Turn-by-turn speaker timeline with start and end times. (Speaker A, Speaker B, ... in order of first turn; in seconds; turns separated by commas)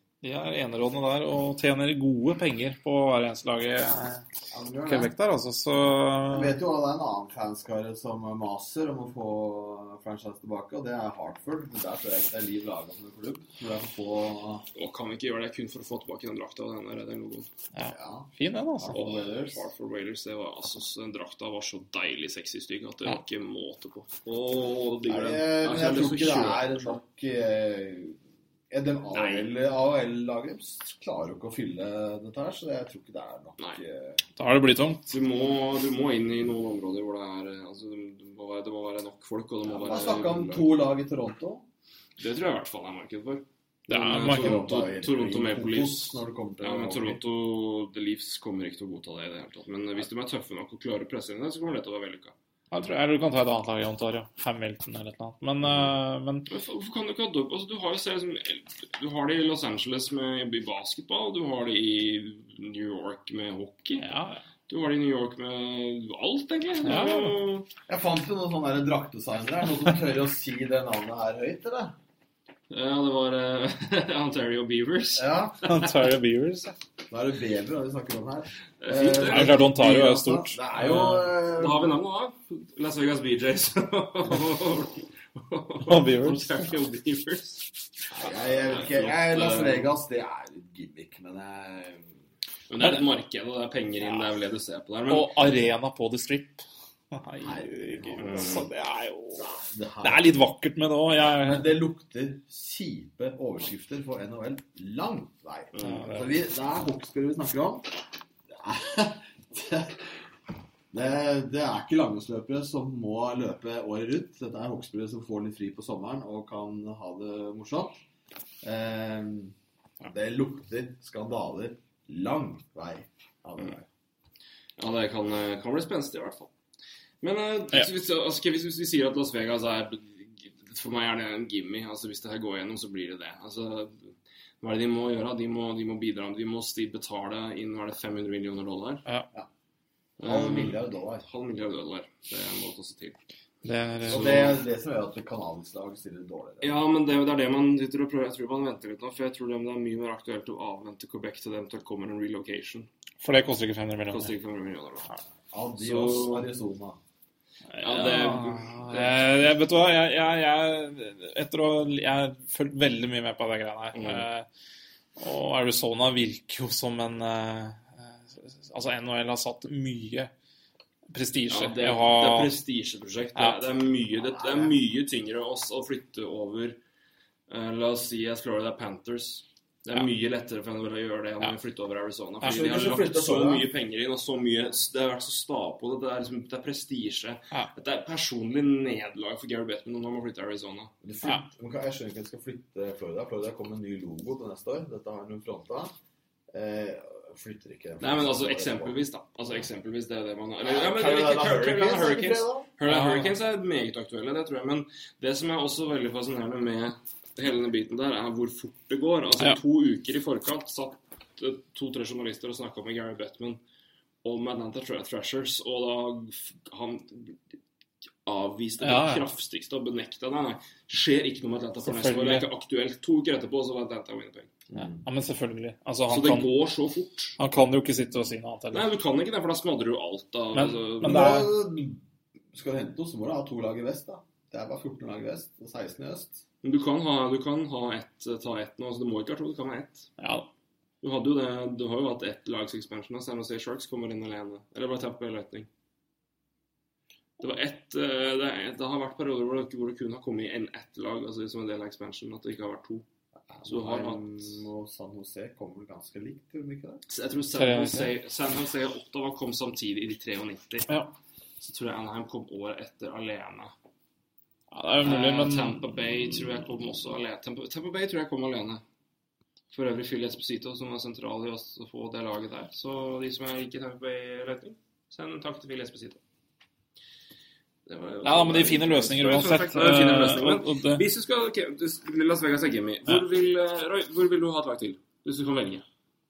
Speaker A: 0.2-4.3, Speaker B: 4.5-5.1, Speaker A: 4.9-6.6, Speaker B: 6.3-14.6, Speaker C: 14.8-17.5, Speaker A: 17.7-19.0, Speaker B: 17.9-18.3, Speaker B: 18.8-19.7, Speaker C: 18.9-27.0, Speaker B: 25.1-28.2, Speaker B: 28.7-34.2, Speaker C: 29.1-29.5, Speaker A: 34.4-35.1, Speaker C: 35.1-40.8, Speaker B: 39.8-41.6, Speaker C: 42.2-52.4, Speaker A: 43.9-44.6, Speaker B: 44.1-47.2, Speaker A: 52.7-56.5, Speaker C: 56.5-64.1, Speaker A: 64.0-64.4, Speaker C: 64.7-67.7, Speaker A: 66.8-67.4, Speaker B: 67.9-72.0, Speaker C: 72.7-75.9, Speaker B: 75.2-75.6, Speaker A: 75.6-76.8, Speaker B: 77.1-82.0, Speaker C: 78.8-79.6, Speaker A: 79.3-81.1, Speaker C: 80.8-87.7, Speaker A: 85.8-86.7, Speaker B: 88.1-92.2, Speaker C: 88.4-89.9, Speaker C: 92.7-95.3, Speaker A: 95.1-101.7, Speaker B: 97.4-98.6, Speaker C: 98.2-98.7, Speaker B: 99.4-100.3, Speaker B: 101.4-108.0, Speaker C: 105.7-106.1, Speaker A: 105.8-106.3, Speaker B: 108.5-110.2, Speaker B: 110.9-118.0, Speaker B: 118.6-123.9, Speaker C: 124.8-126.5, Speaker C: 127.2-139.1, Speaker C: 140.2-143.2, Speaker B: 140.2-141.2, Speaker A: 143.6-144.6, Speaker C: 144.1-144.6, Speaker B: 144.1-146.8, Speaker C: 146.6-152.9, Speaker A: 153.2-154.3, Speaker C: 154.1-155.1, Speaker B: 155.5-157.0, Speaker C: 155.8-156.5, Speaker A: 157.7-164.5, Speaker C: 157.8-159.3, Speaker C: 163.9-164.3, Speaker A: 165.2-170.3, Speaker A: 171.1-172.6, Speaker C: 171.5-176.8, Speaker B: 174.1-174.8, Speaker C: 177.5-190.9, Speaker B: 182.4-183.7, Speaker B: 191.0-195.9, Speaker B: 196.5-199.0, Speaker C: 198.0-213.6, Speaker B: 200.6-202.7, Speaker A: 202.8-203.3, Speaker C: 214.2-217.4, Speaker C: 218.2-224.6, Speaker A: 218.8-219.2, Speaker A: 221.8-222.5, Speaker B: 224.7-225.0, Speaker A: 224.8-226.5, Speaker C: 226.1-227.4, Speaker A: 227.4-228.9, Speaker C: 228.7-231.3, Speaker A: 230.5-231.5, Speaker B: 231.0-232.0, Speaker B: 232.5-236.4, Speaker C: 236.6-240.1, Speaker A: 240.2-240.5, Speaker C: 241.0-245.7, Speaker C: 247.4-253.1, Speaker B: 253.5-257.0, Speaker C: 253.7-254.5, Speaker C: 257.1-260.9, Speaker A: 257.6-258.1, Speaker A: 260.9-261.1, Speaker C: 261.6-263.7, Speaker A: 264.7-266.1, Speaker C: 265.0-268.8, Speaker C: 269.7-276.2, Speaker C: 277.9-285.9, Speaker A: 278.2-281.1